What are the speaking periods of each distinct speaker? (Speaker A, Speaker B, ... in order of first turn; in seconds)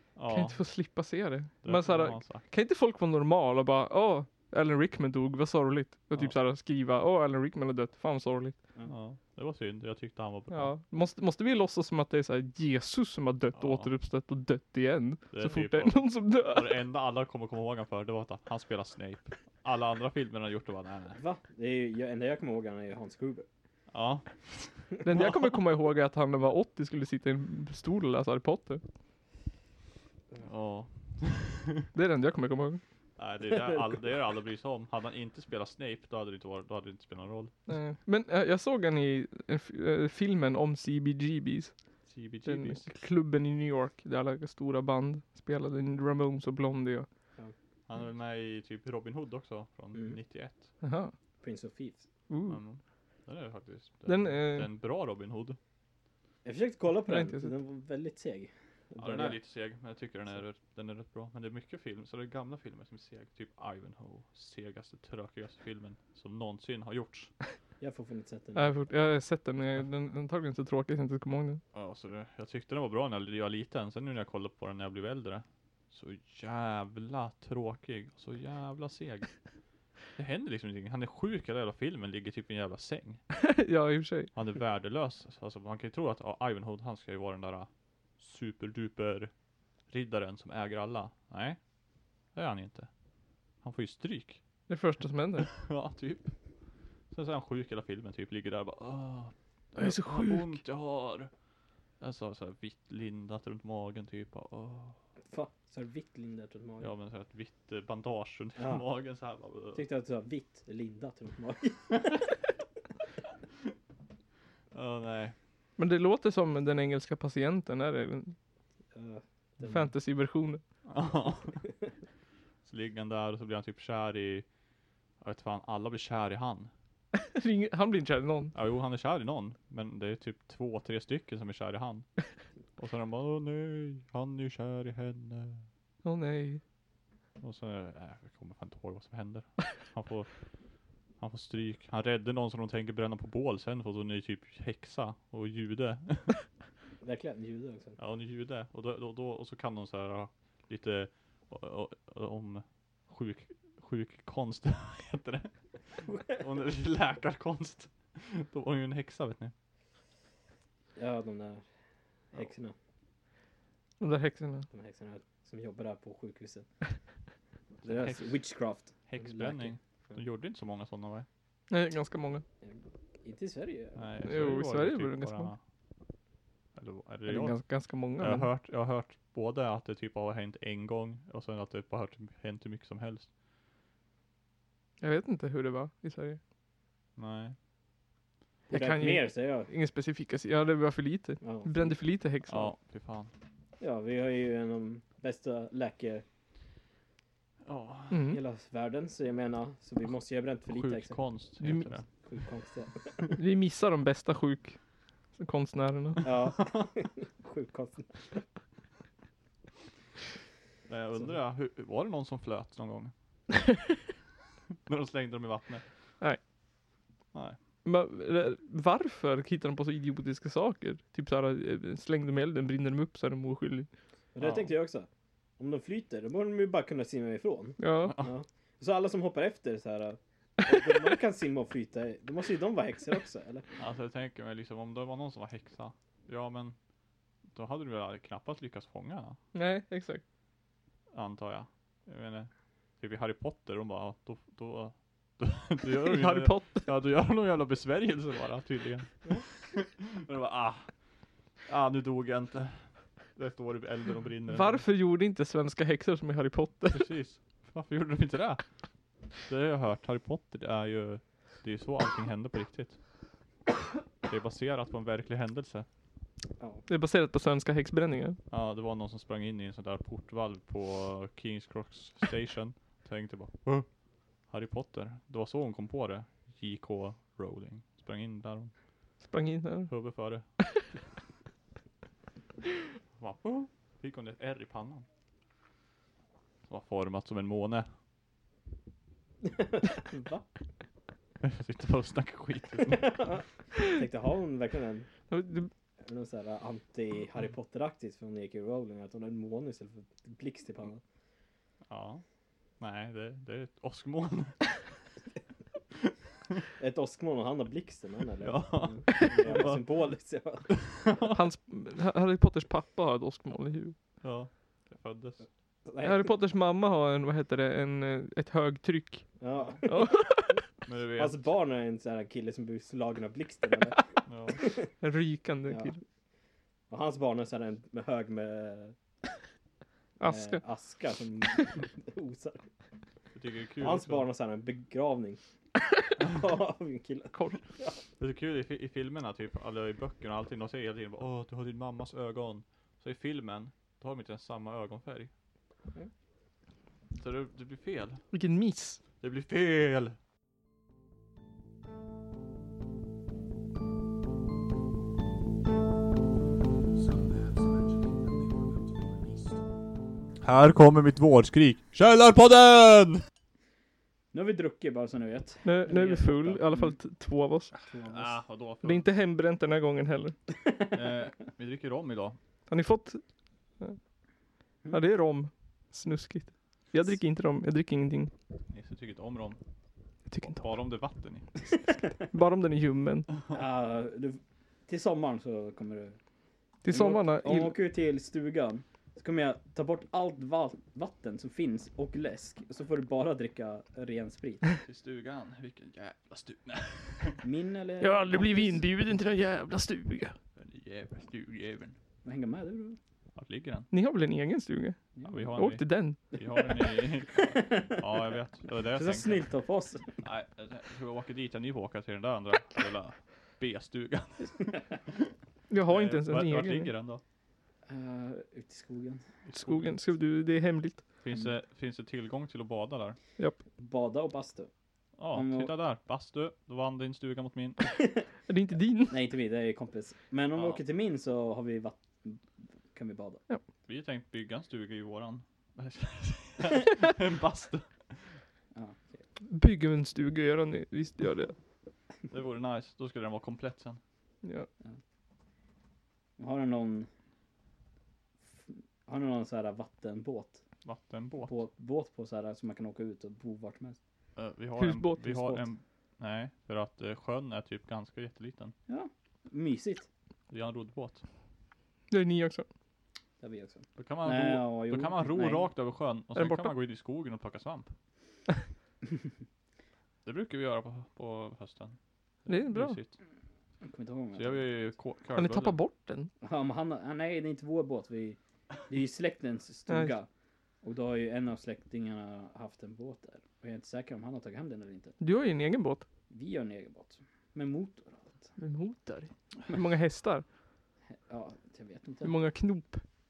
Speaker A: 0.2-0.6, 1.6-2.5, 8.9-10.7, 13.6-13.9, 15.3-21.2, 23.9-25.3, 30.4-31.9, 33.2-37.5, 42.1-42.9, 47.9-50.7, 52.5-55.6, 59.0-67.3, 71.7-79.3, 80.1-83.2, 84.3-89.3, 89.9-91.6, 92.3-92.9, 93.6-94.4, 95.5-96.3, 97.1-101.3, 102.0-105.0, 106.8-109.8, 114.7-115.3, 120.9-121.6, 122.7-124.5, 125.2-126.7, 128.5-132.1, 132.8-135.7, 137.4-140.3, 141.2-146.4, 148.0-159.5, 167.8-168.4, 169.1-171.3, 174.0-175.6, 176.8-177.6, 178.2-183.3, 187.2-187.6, 192.5-193.3, 197.7-198.2, 200.7-202.1, 210.9-213.1, 214.9-215.9, 217.3-217.6, 224.4-224.7, 228.0-228.3, 233.8-236.8, 237.5-239.4, 241.1-250.9, 251.7-254.8, 256.9-258.6, 259.4-263.0, 264.2-265.9, 268.5-273.9, 274.5-278.7, 279.9-280.5, 283.2-285.1, 286.7-287.9, 291.4-293.1, 301.9-302.2, 302.8-304.8, 308.4-310.1, 310.8-311.3, 314.2-315.4, 320.9-321.4, 324.3-324.6, 333.4-334.3, 338.2-345.3, 347.2-348.2, 349.2-350.2, 360.4-363.2, 368.1-369.1, 370.9-372.4, 378.7-379.6, 380.5-381.5, 394.8-397.4, 400.6-402.0, 403.4-403.9, 405.3-409.4, 410.2-415.3, 415.9-417.2, 419.5-419.9, 421.2-423.2, 425.2-427.9, 433.9-438.4, 442.3-444.0, 450.9-451.6, 454.4-458.8, 460.5-461.2, 464.0-467.9, 470.2-473.2, 474.4-475.8
Speaker B: 0.3-8.6, 10.5-16.8, 25.0-28.8, 31.9-32.8, 37.7-41.8, 42.5-47.1, 50.8-51.1, 52.3-52.6, 54.1-54.7, 57.1-57.5, 68.6-71.6, 83.4-84.3, 94.7-95.5, 99.8-100.6, 115.8-118.3, 119.7-120.6, 127.2-128.5, 136.0-136.6, 164.0-164.7, 171.7-172.4, 174.2-175.5, 177.3-178.5, 185.0-186.4, 188.7-192.8, 198.1-198.4, 201.6-201.9, 203.4-204.8, 205.4-206.3, 217.8-223.9, 227.8-228.2, 239.5-240.2, 245.9-246.9, 254.5-257.1, 266.9-268.4, 279.2-279.9, 295.3-295.7, 311.3-314.0, 316.0-320.6, 325.0-326.0, 330.2-330.6, 337.3-337.6, 348.3-349.0, 365.6-367.7, 368.8-370.4, 372.7-373.2, 374.9-378.3, 380.3-380.7, 382.3-383.3, 386.9-387.7, 398.0-400.4, 403.9-405.0, 405.6-406.2, 415.7-416.9, 419.5-421.0, 428.5-429.2, 439.5-441.6, 444.4-444.7, 454.8-455.7, 462.1-462.7, 466.4-466.7, 472.5-473.0, 475.4-476.3, 479.9-480.1, 485.2-486.1, 488.6-490.4, 492.2-493.0
Speaker C: 21.2-23.5, 33.6-33.8, 51.4-52.1, 56.5-59.4, 67.8-68.7, 105.3-106.9, 108.6-108.8, 109.7-112.3, 118.9-119.9, 147.0-148.0, 161.0-161.6, 162.3-162.8, 164.7-166.7, 167.8-170.2, 172.6-174.0, 188.7-189.7, 191.4-192.0, 193.8-196.2, 198.3-201.2, 202.2-203.3, 206.2-208.4, 224.3-225.1, 225.6-233.7, 266.6-266.8, 289.4-290.4, 292.9-295.1, 296.0-301.0, 306.8-310.7, 315.9-316.3, 319.4-320.5, 321.2-324.0, 324.6-324.9, 325.7-326.0, 326.9-328.9, 330.2-332.7, 333.8-335.4, 336.2-337.9, 364.3-367.0, 367.8-368.4, 383.5-386.2, 386.9-394.6, 397.4-398.8, 402.2-403.0, 405.2-405.6, 407.3-408.1, 408.8-410.2, 414.4-414.8, 417.9-419.2, 423.8-424.7, 425.3-425.7, 427.9-428.2, 429.1-433.4, 438.7-439.2, 446.4-447.1, 448.5-450.6, 451.4-454.0, 458.9-460.1, 463.4-465.7, 473.8-474.9, 476.4-480.3, 480.8-485.2, 486.3-488.5, 491.1-492.4